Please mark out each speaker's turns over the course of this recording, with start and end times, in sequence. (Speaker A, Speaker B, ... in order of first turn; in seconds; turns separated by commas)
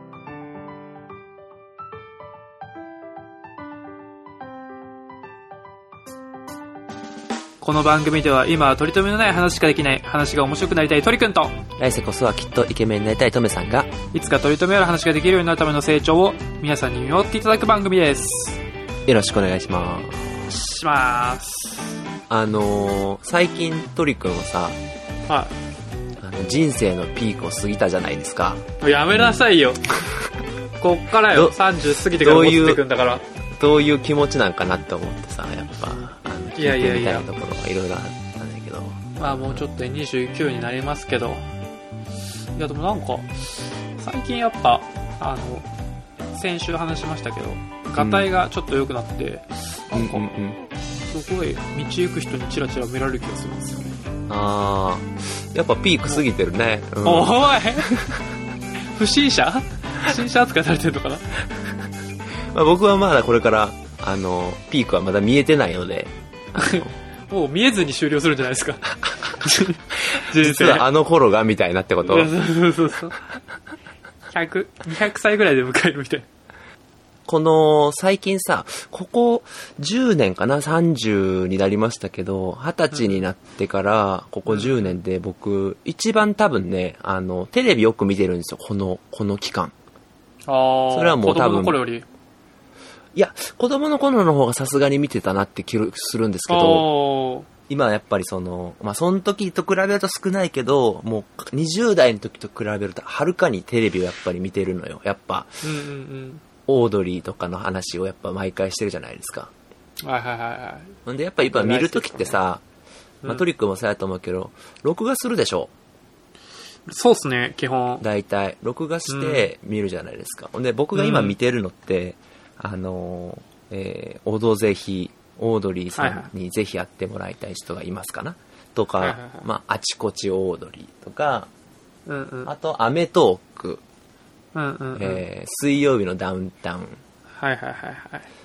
Speaker A: 7.6-11.6, Speaker B: 11.8-13.9, Speaker A: 14.1-18.6, Speaker B: 19.1-20.5, Speaker A: 20.5-22.0, Speaker B: 22.3-24.8, Speaker A: 25.3-25.5, Speaker B: 26.2-29.5, Speaker A: 28.8-29.9, Speaker A: 30.8-33.2, Speaker B: 31.3-31.6, Speaker B: 32.1-32.8, Speaker B: 33.5-39.6, Speaker A: 36.6-37.3, Speaker A: 39.2-41.5, Speaker A: 42.6-45.7, Speaker A: 46.3-50.3, Speaker B: 48.0-48.3, Speaker B: 49.9-50.6, Speaker A: 51.1-54.0, Speaker B: 54.3-58.2, Speaker A: 57.0-57.9, Speaker A: 59.0-61.2, Speaker B: 62.5-66.9, Speaker A: 66.5-70.9, Speaker B: 70.2-72.3, Speaker A: 72.0-73.2, Speaker A: 74.3-76.3, Speaker B: 77.3-89.7, Speaker A: 82.9-83.2, Speaker A: 84.5-84.9, Speaker A: 90.5-92.1, Speaker B: 90.9-91.8, Speaker B: 93.1-96.9, Speaker A: 96.5-97.5, Speaker B: 97.7-105.6, Speaker A: 105.6-106.4, Speaker B: 106.7-109.5, Speaker A: 110.0-112.4, Speaker B: 111.1-112.6, Speaker B: 113.2-115.7, Speaker A: 116.9-118.0, Speaker B: 118.0-131.5, Speaker A: 119.1-119.5, Speaker A: 121.0-121.3, Speaker A: 126.0-126.3, Speaker A: 129.0-129.5, Speaker A: 132.1-132.5, Speaker B: 132.5-133.8, Speaker A: 134.5-135.2, Speaker B: 134.9-137.0, Speaker A: 137.4-138.3